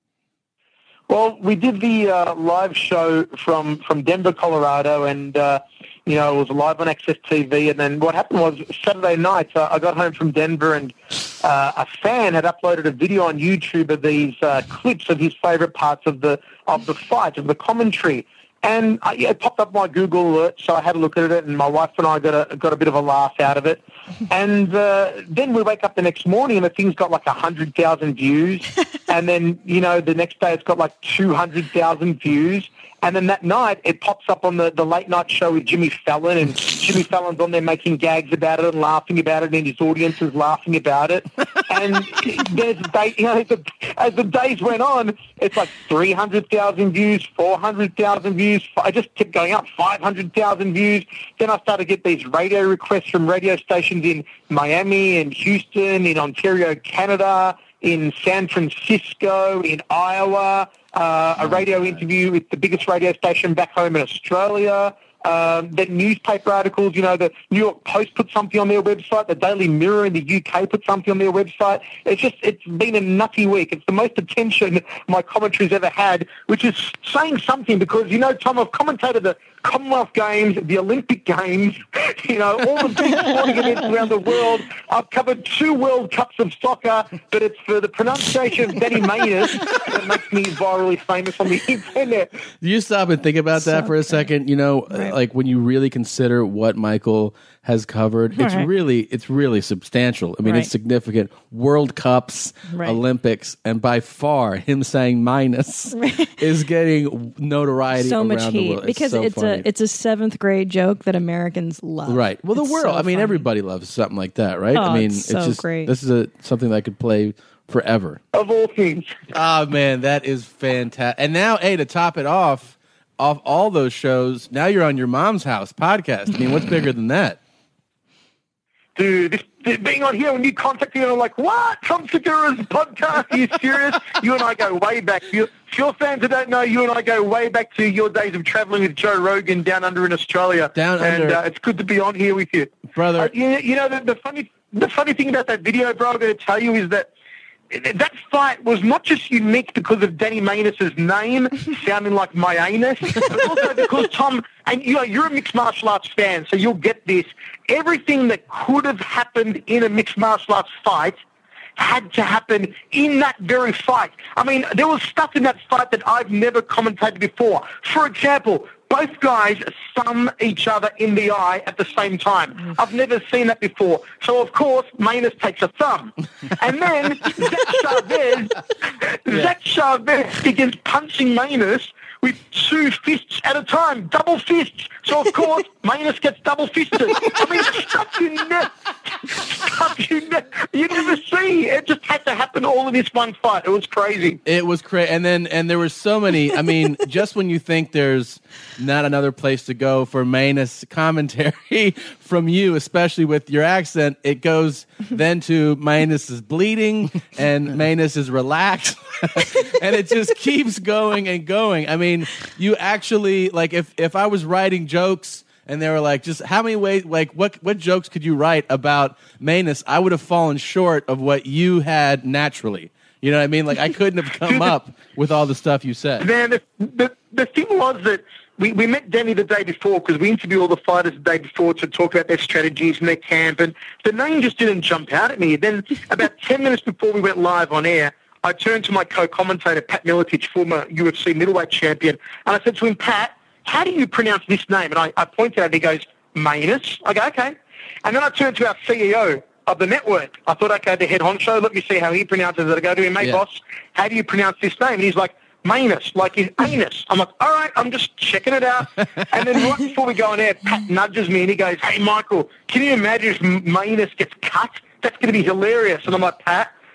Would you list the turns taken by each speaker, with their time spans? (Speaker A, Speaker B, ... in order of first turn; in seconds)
Speaker A: 1.1-92.3, 118.3-119.1, 128.9-147.1, 147.7-161.2, 161.8-188.7, 189.2-194.4, 226.2-266.7
Speaker B: 61.4-62.0, 92.6-109.7, 112.1-118.2, 119.3-127.4, 140.7-141.4, 142.9-143.3, 194.4-226.2
Speaker C: 93.6-94.2, 98.3-98.7, 100.4-100.7, 102.7-103.0, 105.9-106.4, 107.9-113.5, 114.7-115.9